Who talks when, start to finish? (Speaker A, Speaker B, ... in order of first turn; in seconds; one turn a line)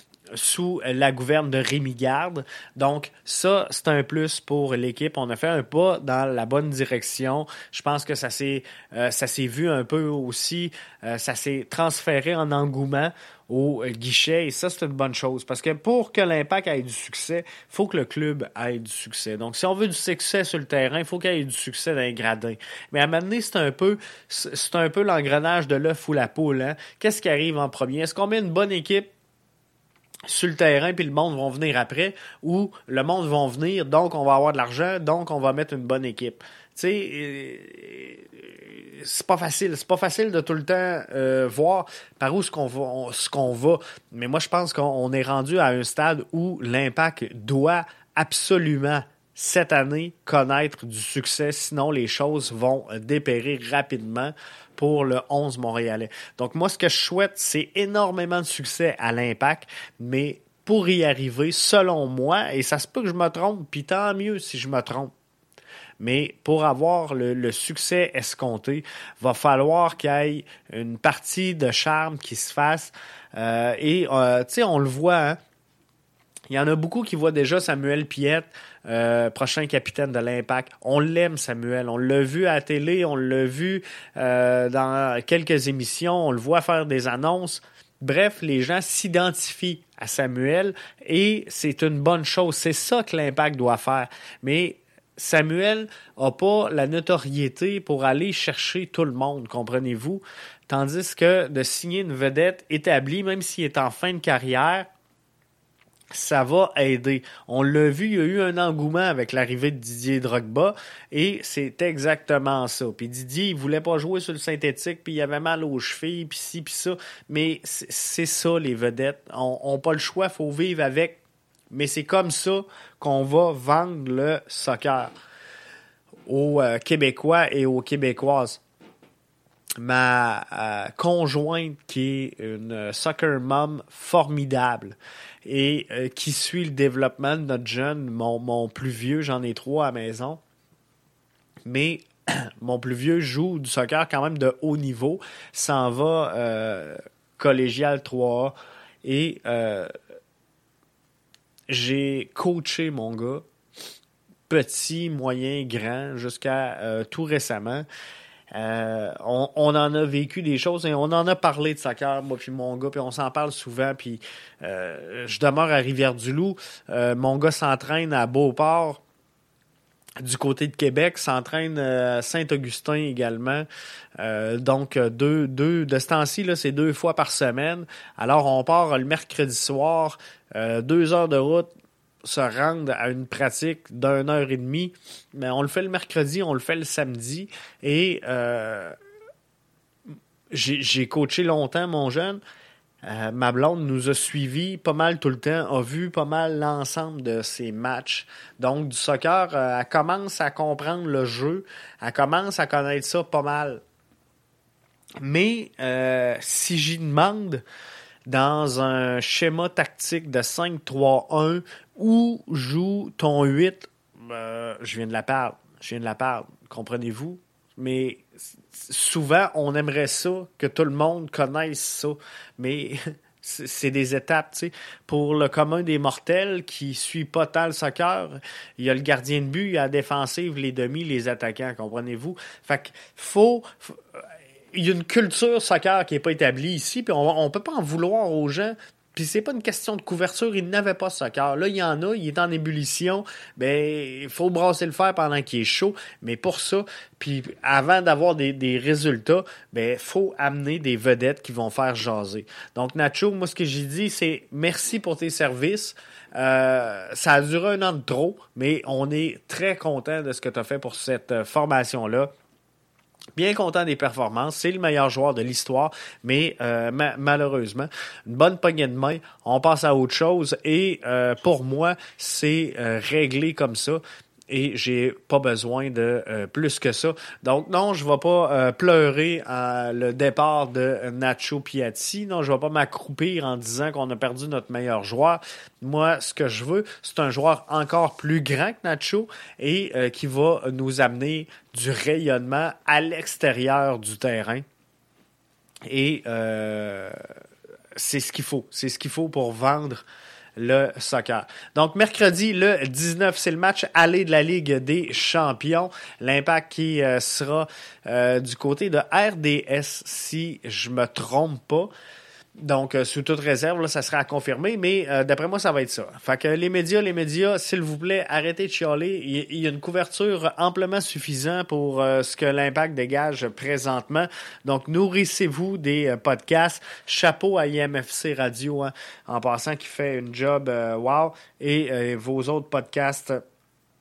Speaker A: 0.3-29.1
Speaker A: 30.3-65.1
Speaker A: 66.0-75.4
Speaker A: 76.5-104.9
Speaker A: 106.1-121.2
Speaker A: 121.7-125.1
Speaker A: 126.3-128.6
Speaker A: 129.8-140.4
Speaker A: 141.7-149.9
Speaker A: 151.7-153.4
Speaker A: 154.5-157.8
Speaker A: 158.5-169.0
Speaker A: 170.2-173.7
Speaker A: 174.2-181.7
Speaker A: 182.2-188.9
Speaker A: 190.5-192.4
Speaker A: 193.0-203.8
Speaker A: 205.2-207.6
Speaker A: 208.3-234.2
Speaker A: 234.7-262.3
Speaker A: 263.4-294.6
Speaker A: 295.9-297.2
Speaker A: 297.9-311.9
Speaker A: 312.6-333.4